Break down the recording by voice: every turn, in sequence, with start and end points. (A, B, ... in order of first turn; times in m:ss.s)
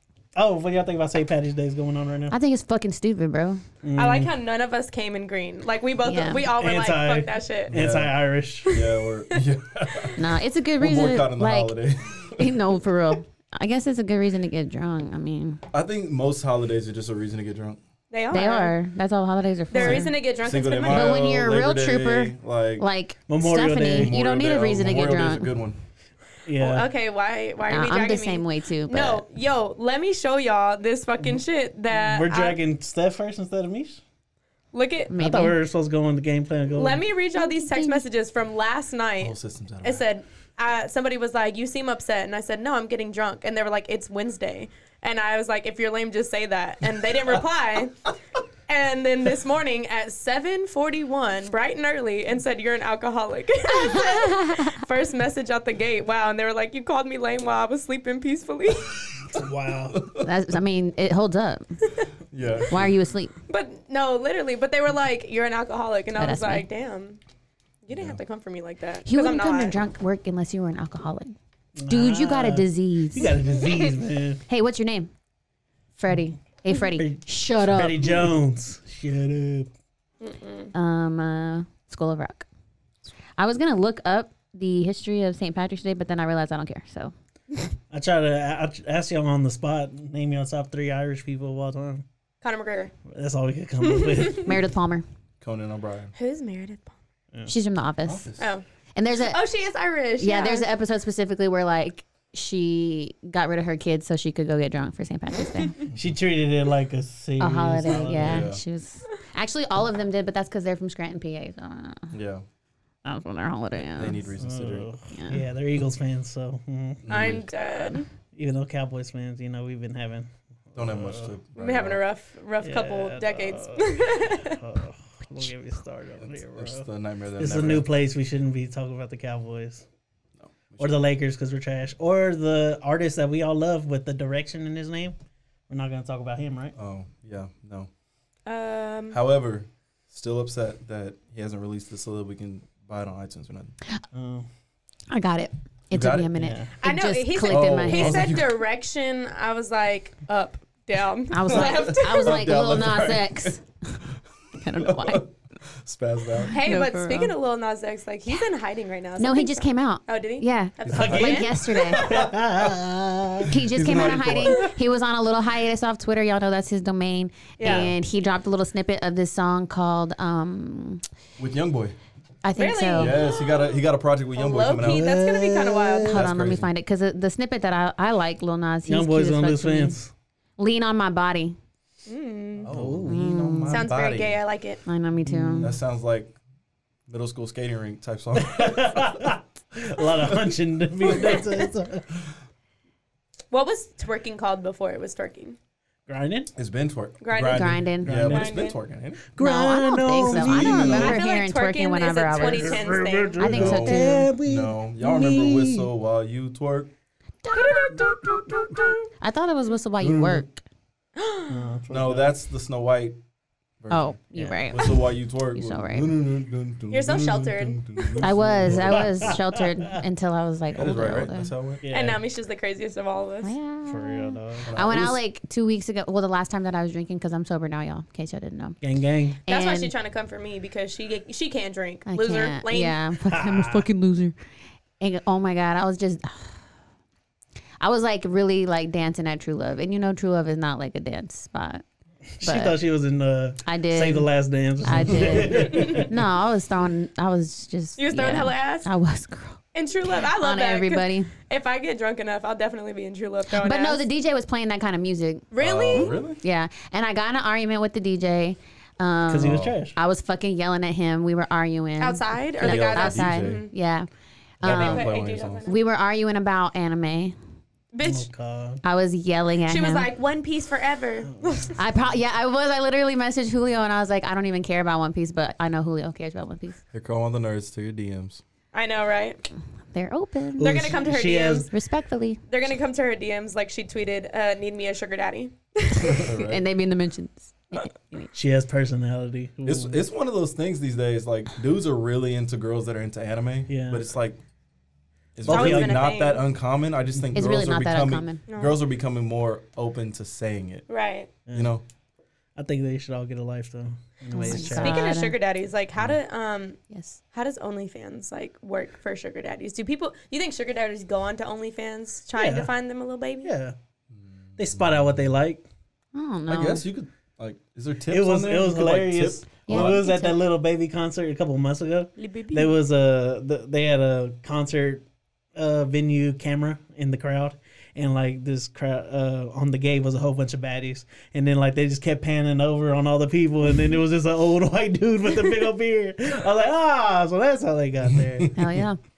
0:00.3-0:02.4 A
0:02.3-0:03.6 B
0:03.8-0:04.3 A
0:04.0-0:07.7 C
0:06.0-0:06.5 B
0:06.6-0:08.8 A
0:07.7-0:12.6 D
0:08.7-0:09.4 C
0:10.2-0:11.8 B
0:12.3-0:15.6 B
0:15.7-0:17.8 D
0:18.1-0:18.7 C
0:18.3-0:20.1 B
0:19.7-0:21.2 C
0:20.4-0:22.9 D
0:20.9-0:25.5 B
0:23.3-0:24.2 A
0:23.9-0:25.8 D
0:26.4-0:26.9 A
0:26.6-0:32.6 C
0:27.7-0:29.2 B
0:32.0-0:34.0 A
0:34.7-0:35.1 C
0:35.1-0:35.6 B
0:35.1-0:37.0 A
0:36.7-0:48.1 C
0:37.3-0:38.0 B
0:39.2-0:40.0 D
0:48.7-0:59.0 C
0:53.7-0:54.8 B
0:59.3-1:00.0 A
0:59.9-1:00.3 D
1:00.2-1:01.8 B
1:02.3-1:03.0 D
1:02.7-1:03.3 B
1:03.5-1:07.2 C
1:06.2-1:06.7 B
1:07.8-1:09.8 C
1:07.9-1:08.2 D
1:09.0-1:11.3 B
1:11.8-1:14.4 A
1:11.9-1:13.4 B
1:14.5-1:15.1 B
1:16.0-1:18.2 B
1:16.9-1:19.7 A
1:20.2-1:20.7 C
1:20.7-1:22.5 B
1:23.4-1:27.1 B
1:27.9-1:32.0 A
1:32.4-1:32.9 C
1:33.1-1:34.6 A
1:33.8-1:34.4 C
1:34.4-1:35.0 B
1:35.4-1:36.1 D
1:36.1-1:36.9 C
1:37.4-1:38.3 B
1:38.0-1:38.5 D
1:38.4-1:38.6 C
1:39.0-1:39.4 B
1:39.2-1:40.6 C
1:40.2-1:45.8 B
1:45.9-1:46.2 D
1:45.9-1:48.5 A
1:47.4-1:52.1 B
1:47.8-1:48.6 D
1:52.1-1:52.4 D
1:53.0-1:54.3 B
1:53.8-1:54.9 D
1:54.4-2:01.3 A
1:55.1-1:55.4 B
1:57.0-1:57.4 D
1:57.1-1:58.1 C
2:00.7-2:02.0 D
2:01.5-2:04.6 C
2:02.6-2:06.9 A
2:06.2-2:07.9 D
2:07.4-2:09.8 A
2:10.4-2:11.0 D
2:10.8-2:15.2 A
2:15.7-2:16.7 A
2:16.8-2:17.9 D
2:18.4-2:19.2 C
2:19.1-2:23.7 D
2:24.1-2:24.5 A
2:25.1-2:28.4 B
2:25.9-2:26.3 D
2:26.3-2:26.7 A
2:26.8-2:32.4 C
2:27.4-2:28.6 D
2:31.3-2:34.0 B
2:31.5-2:33.6 D
2:34.6-2:35.3 B
2:34.8-2:36.6 D
2:36.5-2:37.3 B
2:36.5-2:41.6 C
2:39.2-2:42.1 B
2:40.8-2:44.7 D
2:40.9-2:43.5 A
2:43.5-2:51.0 B
2:47.6-2:47.9 C
2:47.6-2:47.9 D
2:51.4-2:52.0 D
2:52.4-2:53.2 B
2:52.6-2:53.7 C
2:52.9-2:55.1 D
2:54.3-2:56.2 C
2:54.8-2:56.2 A
2:56.1-2:56.7 D
2:56.1-3:00.0 B
2:58.8-3:00.1 A
3:00.6-3:01.6 B
3:02.1-3:02.7 C
3:02.6-3:04.4 D
3:02.7-3:03.2 A
3:03.0-3:03.9 B
3:03.7-3:04.8 C
3:04.8-3:05.8 B
3:05.2-3:05.8 A
3:05.6-3:06.3 D
3:07.1-3:09.4 D
3:08.4-3:12.0 A
3:11.1-3:11.6 C
3:13.5-3:15.6 C
3:16.1-3:16.5 A
3:16.6-3:19.2 D
3:17.2-3:18.8 C
3:17.5-3:18.4 B
3:18.0-3:18.5 A
3:19.3-3:21.2 A
3:19.4-3:24.3 B
3:20.2-3:21.2 D
3:20.9-3:23.5 C
3:22.3-3:25.9 A
3:23.5-3:26.9 D
3:27.4-3:28.0 B
3:27.5-3:29.0 C
3:29.2-3:30.6 B
3:30.0-3:30.4 A
3:31.2-3:31.6 C
3:31.5-3:32.3 A
3:31.9-3:33.2 D
3:33.8-3:39.4 D
3:33.9-3:36.1 B
3:34.4-3:34.7 A
3:36.9-3:37.8 C
3:38.0-3:39.6 A
3:38.2-3:41.5 B
3:40.7-3:41.8 D
3:41.8-3:42.2 A
3:41.9-3:43.5 C
3:43.4-3:48.8 B
3:43.9-3:45.0 A
3:44.6-3:45.2 D
3:48.8-3:49.4 A
3:49.4-3:49.9 B
3:49.5-3:53.0 C
3:52.1-3:54.3 B
3:53.2-3:53.8 A
3:55.0-3:56.6 B
3:57.8-4:01.8 B
4:02.4-4:06.1 A
4:02.4-4:02.8 B
4:03.6-4:09.6 B
4:05.4-4:06.1 C
4:08.0-4:08.9 C
4:09.7-4:14.0 C
4:10.4-4:11.3 B
4:13.5-4:24.1 B
4:15.5-4:16.2 C
4:15.6-4:16.4 D
4:19.3-4:20.0 A
4:19.4-4:19.8 D
4:22.0-4:23.7 C
4:22.6-4:23.7 D
4:24.6-4:25.7 D
4:24.6-4:25.8 C
4:24.6-4:25.1 B
4:25.6-4:27.4 B
4:27.9-4:28.3 C
4:28.0-4:28.8 A
4:28.8-4:30.1 B
4:29.6-4:31.7 C
4:31.3-4:31.7 A
4:31.8-4:36.8 B
4:36.9-4:38.4 D
4:38.7-4:39.4 C
4:39.9-4:40.9 B
4:40.6-4:41.7 A
4:40.6-4:41.7 C
4:41.6-4:42.4 B
4:42.5-4:46.3 C
4:46.0-4:46.6 D
4:46.4-4:48.3 B
4:48.3-4:50.0 A
4:49.6-4:54.4 D
4:53.7-4:54.0 A
4:55.3-5:00.8 D
4:55.4-4:56.1 A
4:55.4-4:56.4 C
4:57.3-4:58.4 B
4:58.5-4:58.8 C
5:00.9-5:01.3 C
5:01.5-5:01.7 A
5:01.5-5:01.8 D
5:02.6-5:05.1 A
5:04.3-5:05.3 B
5:04.4-5:06.8 C
5:06.9-5:07.2 B
5:07.3-5:13.5 C
5:12.4-5:12.7 A
5:13.4-5:13.7 A
5:14.1-5:15.3 D
5:14.6-5:15.6 A
5:16.1-5:16.8 B
5:16.5-5:20.0 D
5:18.1-5:25.0 A
5:19.7-5:20.4 B
5:22.2-5:22.8 C
5:25.5-5:38.5 A
5:38.0-5:38.8 D
5:38.5-5:39.0 B